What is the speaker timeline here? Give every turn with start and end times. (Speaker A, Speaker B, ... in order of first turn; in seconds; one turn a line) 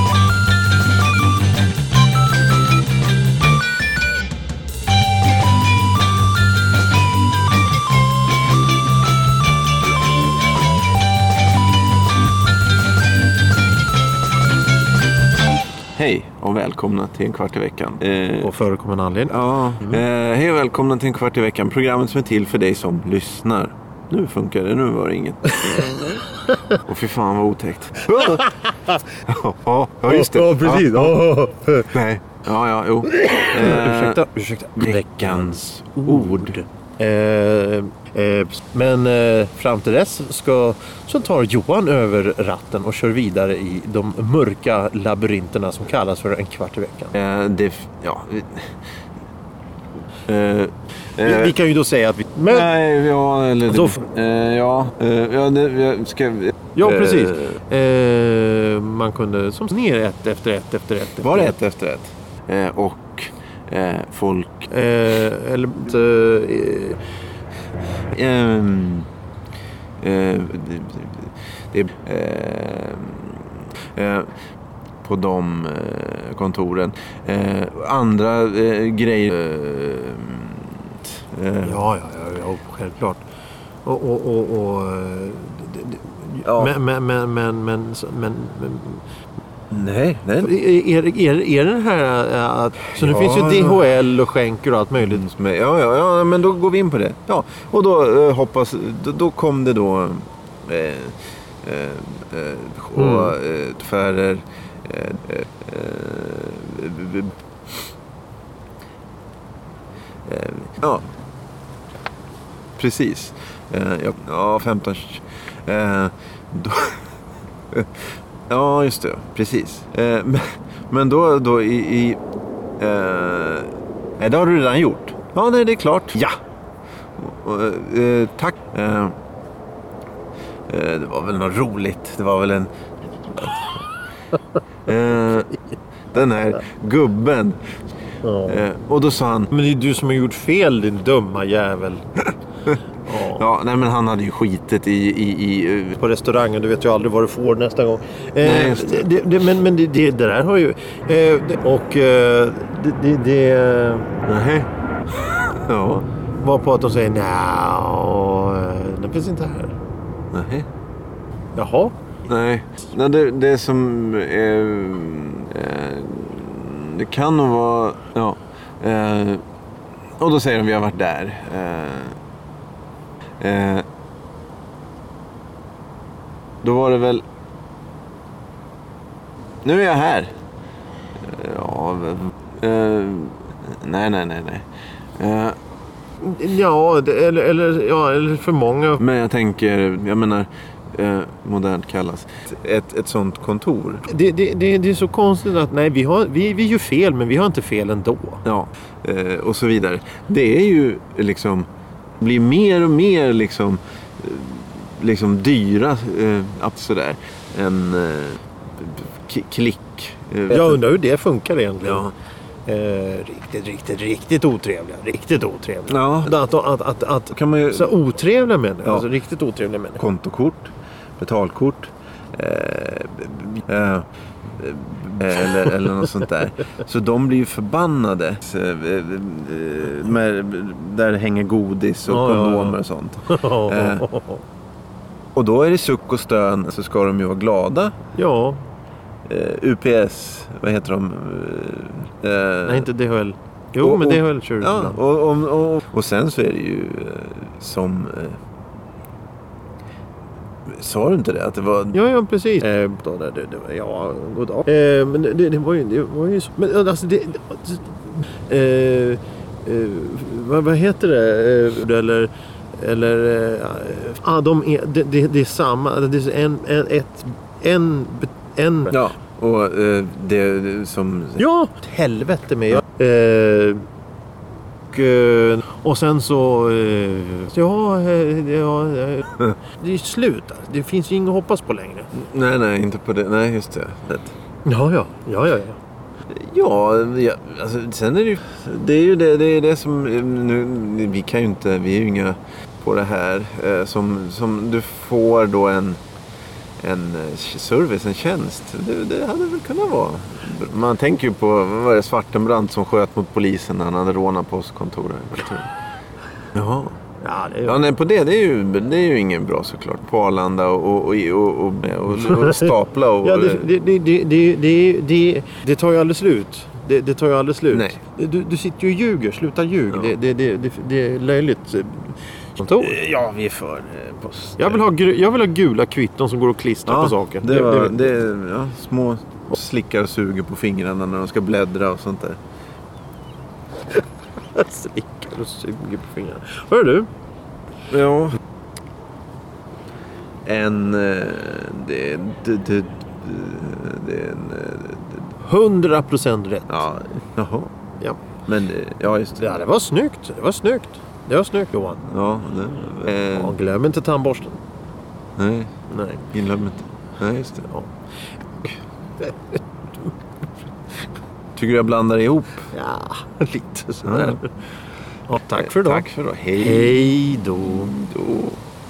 Speaker A: 15.9-18.5
Speaker B: 18.4-20.0
Speaker A: 19.3-28.6
Speaker B: 28.2-28.5
Speaker A: 29.2-31.2
Speaker B: 30.1-31.9
Speaker A: 31.9-34.2
Speaker B: 33.0-47.1
Speaker A: 34.8-36.5
Speaker A: 47.1-48.8
Speaker A: 50.3-51.5
Speaker B: 51.2-52.7
Speaker A: 52.5-57.5
Speaker B: 53.7-54.0
Speaker B: 56.8-61.5
Speaker A: 61.2-64.7
Speaker B: 64.7-67.0
Speaker A: 68.1-69.1
Speaker A: 70.0-74.3
Speaker A: 75.0-81.8
Speaker B: 81.6-83.2
Speaker B: 83.8-89.0
Speaker A: 86.4-86.7
Speaker A: 89.7-90.5
Speaker B: 90.4-95.2
Speaker A: 93.0-93.8
Speaker A: 95.0-107.3
Speaker B: 103.0-103.3
Speaker A: 110.3-111.1
Speaker A: 112.8-117.1
Speaker A: 117.7-122.2
Speaker A: 122.8-126.3
Speaker A: 127.2-129.1
Speaker A: 130.7-132.7
Speaker A: 133.2-133.8
Speaker A: 134.8-135.5
Speaker A: 136.1-137.6
Speaker B: 138.2-138.6
Speaker A: 138.5-139.5
Speaker B: 139.5-142.0
Speaker B: 143.0-143.4
Speaker A: 143.2-146.0
Speaker B: 146.0-154.3
Speaker A: 148.4-149.1
Speaker A: 154.3-154.7
Speaker A: 155.6-156.1
Speaker B: 156.4-159.8
Speaker A: 160.3-160.7
Speaker B: 161.5-161.9
Speaker A: 162.3-169.4
Speaker A: 170.2-172.2
Speaker A: 173.4-173.8
Speaker A: 176.6-177.2
Speaker A: 179.6-180.3
Speaker A: 181.2-184.7
Speaker A: 185.2-185.6
Speaker B: 186.2-189.0
Speaker A: 189.0-194.0
Speaker B: 194.1-198.4
Speaker A: 198.4-201.7
Speaker A: 202.2-210.8
Speaker B: 210.5-212.1
Speaker A: 211.8-212.1
Speaker B: 212.7-220.0
Speaker A: 215.9-216.3
Speaker A: 217.3-217.9
Speaker A: 220.0-234.0
Speaker B: 232.1-234.4
Speaker A: 235.3-237.9
Speaker B: 238.1-238.6
Speaker A: 239.2-242.9
Speaker B: 242.6-245.0
Speaker A: 243.8-248.4
Speaker A: 250.7-252.0
Speaker B: 251.9-269.0
Speaker A: 268.9-271.4
Speaker B: 271.4-273.8
Speaker B: 274.9-282.1
Speaker A: 282.1-284.3
Speaker B: 284.6-285.8
Speaker A: 286.3-296.0
Speaker A: 296.8-305.7
Speaker A: 306.5-307.0
Speaker B: 307.2-307.8
Speaker A: 307.6-313.7
Speaker B: 312.2-322.9
Speaker A: 317.7-318.0
Speaker A: 322.8-324.8
Speaker B: 324.6-328.1
Speaker A: 326.9-332.4
Speaker B: 334.5-337.1
Speaker A: 337.9-338.4
Speaker A: 340.4-345.3
Speaker B: 345.4-346.9
Speaker A: 346.7-347.7
Speaker A: 348.4-349.5
Speaker B: 349.4-352.0
Speaker A: 352.0-353.5
Speaker B: 353.1-354.6
Speaker A: 355.4-355.7
Speaker B: 355.9-356.3
Speaker A: 356.3-357.7
Speaker B: 358.6-360.1
Speaker A: 361.6-362.7
Speaker B: 362.7-364.5
Speaker A: 364.1-364.4
Speaker B: 365.3-366.1
Speaker A: 365.6-368.6
Speaker B: 366.6-367.9